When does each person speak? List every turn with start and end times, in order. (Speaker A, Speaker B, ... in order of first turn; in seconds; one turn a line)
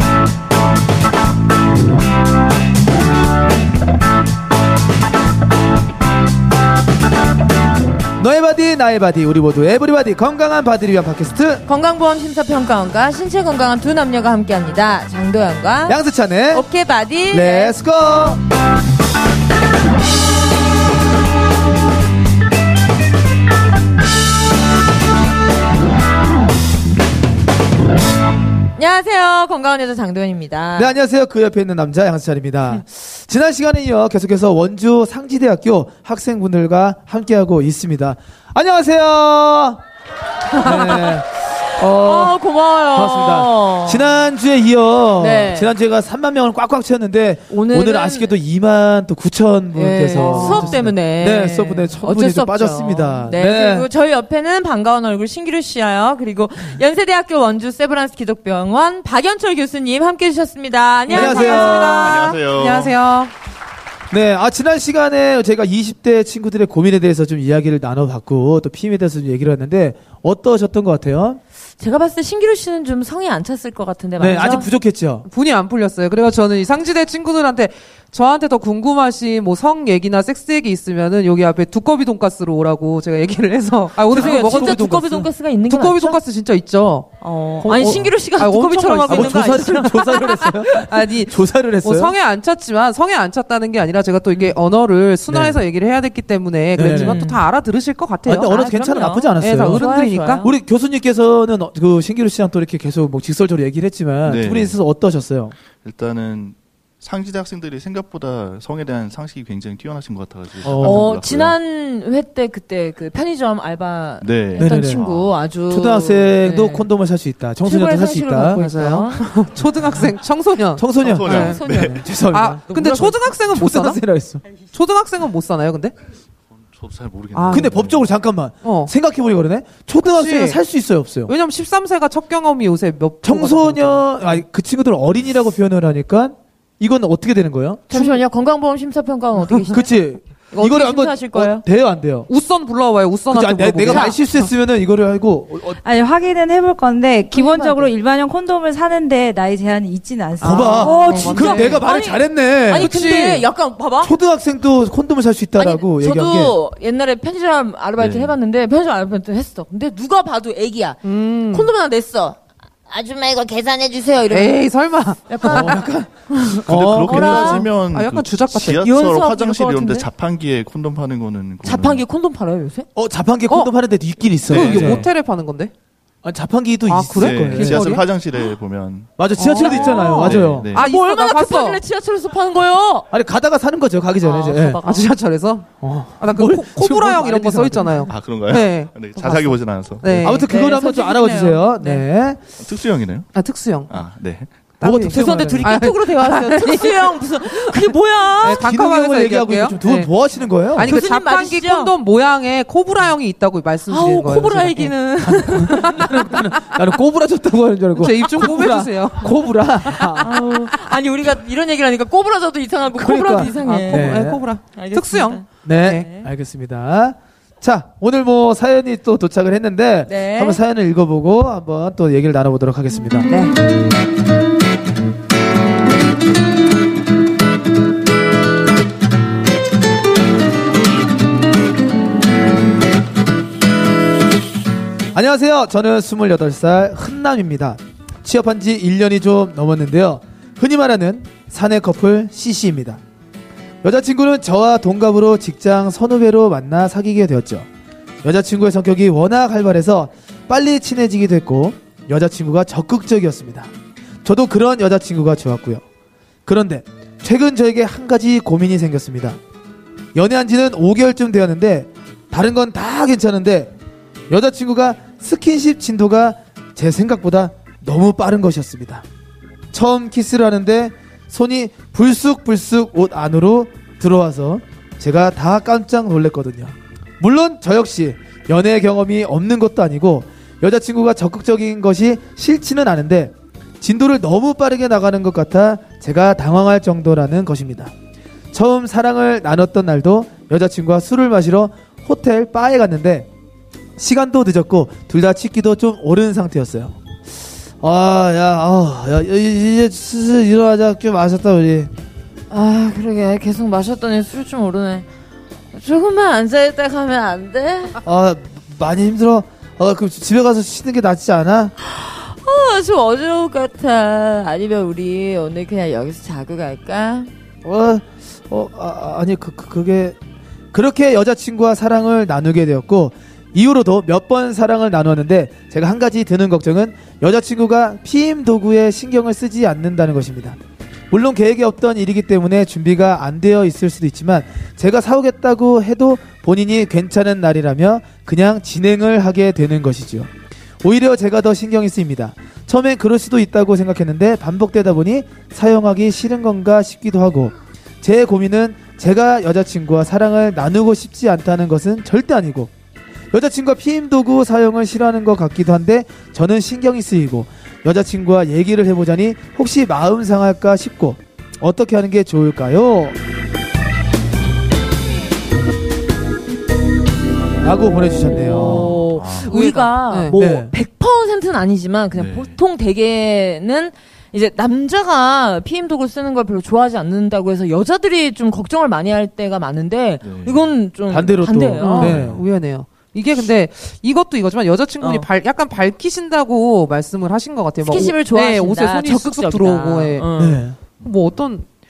Speaker A: 8.2-11.6
Speaker B: 11.7-17.8
Speaker A: 15.9-16.6
Speaker A: 17.3-18.4
Speaker B: 28.8-30.9
Speaker A: 30.7-39.8
Speaker B: 40.5-41.2
Speaker A: 40.5-42.4
Speaker B: 41.8-44.2
Speaker A: 42.9-53.9
Speaker B: 45.2-45.7
Speaker B: 47.5-48.3
Speaker B: 49.7-62.1
Speaker C: 50.1-50.9
Speaker C: 61.1-63.3
Speaker A: 61.1-62.0
Speaker D: 61.7-62.9
Speaker A: 64.1-71.4
Speaker B: 71.8-74.7
Speaker A: 74.2-75.2
Speaker C: 75.3-85.1
Speaker A: 84.1-85.3
Speaker B: 84.1-86.2
Speaker C: 85.7-98.6
Speaker B: 87.2-90.5
Speaker A: 87.7-88.0
Speaker A: 89.1-92.1
Speaker A: 95.3-95.6
Speaker A: 96.7-97.2
Speaker B: 96.8-97.4
Speaker A: 98.2-99.8
Speaker B: 98.5-100.5
Speaker C: 99.4-100.4
Speaker A: 100.4-105.5
Speaker D: 104.2-104.8
Speaker D: 105.8-111.5
Speaker A: 110.6-111.0
Speaker B: 110.7-116.9
Speaker D: 114.2-115.3
Speaker A: 114.6-115.0
Speaker A: 115.7-118.6
Speaker B: 117.6-119.3
Speaker C: 118.5-121.6
Speaker A: 120.8-124.4
Speaker D: 121.0-122.0
Speaker B: 121.3-122.0
Speaker C: 122.2-124.0
Speaker B: 122.7-123.1
Speaker C: 124.7-125.9
Speaker D: 126.7-128.1
Speaker C: 127.3-127.8
Speaker A: 127.5-131.3
Speaker C: 128.6-128.9
Speaker C: 130.0-130.6
Speaker C: 131.3-134.4
Speaker A: 133.2-137.9
Speaker B: 137.9-139.9
Speaker A: 139.6-142.3
Speaker B: 140.5-141.6
Speaker C: 142.3-144.5
Speaker A: 143.3-145.8
Speaker B: 143.9-144.2
Speaker E: 145.7-151.8
Speaker B: 147.3-147.9
Speaker A: 150.4-152.9
Speaker B: 150.4-154.1
Speaker C: 150.5-151.8
Speaker C: 152.7-153.5
Speaker A: 154.0-156.6
Speaker B: 155.6-161.0
Speaker D: 158.0-158.3
Speaker C: 161.0-161.7
Speaker B: 161.5-164.6
Speaker C: 164.3-165.8
Speaker B: 165.3-167.7
Speaker A: 165.4-166.1
Speaker A: 166.7-167.3
Speaker D: 166.7-172.0
Speaker C: 167.1-168.8
Speaker B: 168.8-170.1
Speaker B: 171.6-172.9
Speaker A: 172.9-175.1
Speaker C: 174.5-175.7
Speaker D: 174.5-175.0
Speaker A: 176.2-177.9
Speaker C: 176.9-178.0
Speaker D: 177.2-180.8
Speaker A: 179.2-180.7
Speaker C: 179.4-181.8
Speaker B: 179.6-183.1
Speaker A: 183.1-184.8
Speaker B: 184.2-185.1
Speaker C: 184.8-190.4
Speaker A: 185.8-188.1
Speaker D: 188.1-190.3
Speaker A: 190.2-192.4
Speaker B: 190.3-192.0
Speaker D: 192.6-193.3
Speaker C: 193.3-193.9
Speaker D: 193.9-194.5
Speaker C: 194.8-200.1
Speaker A: 194.8-195.7
Speaker B: 195.1-198.7
Speaker A: 198.6-200.9
Speaker C: 200.7-204.9
Speaker B: 200.8-201.9
Speaker B: 203.9-206.3
Speaker A: 205.3-210.3
Speaker C: 205.7-205.9
Speaker C: 207.9-210.2
Speaker B: 210.2-216.3
Speaker A: 212.9-214.4
Speaker C: 213.6-216.1
Speaker A: 215.6-223.3
Speaker B: 220.1-220.6
Speaker B: 223.3-223.5
Speaker A: 235.1-243.0
Speaker A: 243.8-247.7
Speaker A: 248.2-253.7
Speaker A: 254.2-255.8
Speaker A: 256.4-259.4
Speaker A: 260.1-263.7
Speaker A: 264.3-269.0
Speaker A: 269.7-287.9
Speaker A: 288.5-293.3
Speaker A: 294.0-297.0
Speaker A: 297.8-301.9
Speaker B: 302.5-305.1
Speaker B: 305.7-308.0
Speaker A: 308.0-311.7
Speaker B: 311.8-317.3
Speaker A: 317.6-320.2
Speaker A: 320.7-330.6
Speaker A: 331.1-340.3
Speaker A: 340.8-352.7
Speaker A: 353.3-363.2
Speaker A: 367.6-369.0
Speaker B: 368.2-382.1
Speaker C: 368.5-370.4
Speaker D: 369.1-369.5
Speaker A: 370.3-370.7
Speaker D: 372.1-372.6
Speaker D: 380.2-380.7
Speaker A: 381.1-382.4
Speaker C: 381.8-390.3
Speaker D: 382.0-382.4
Speaker B: 385.0-385.3
Speaker B: 387.8-390.6
Speaker A: 390.4-390.8
Speaker C: 391.0-391.7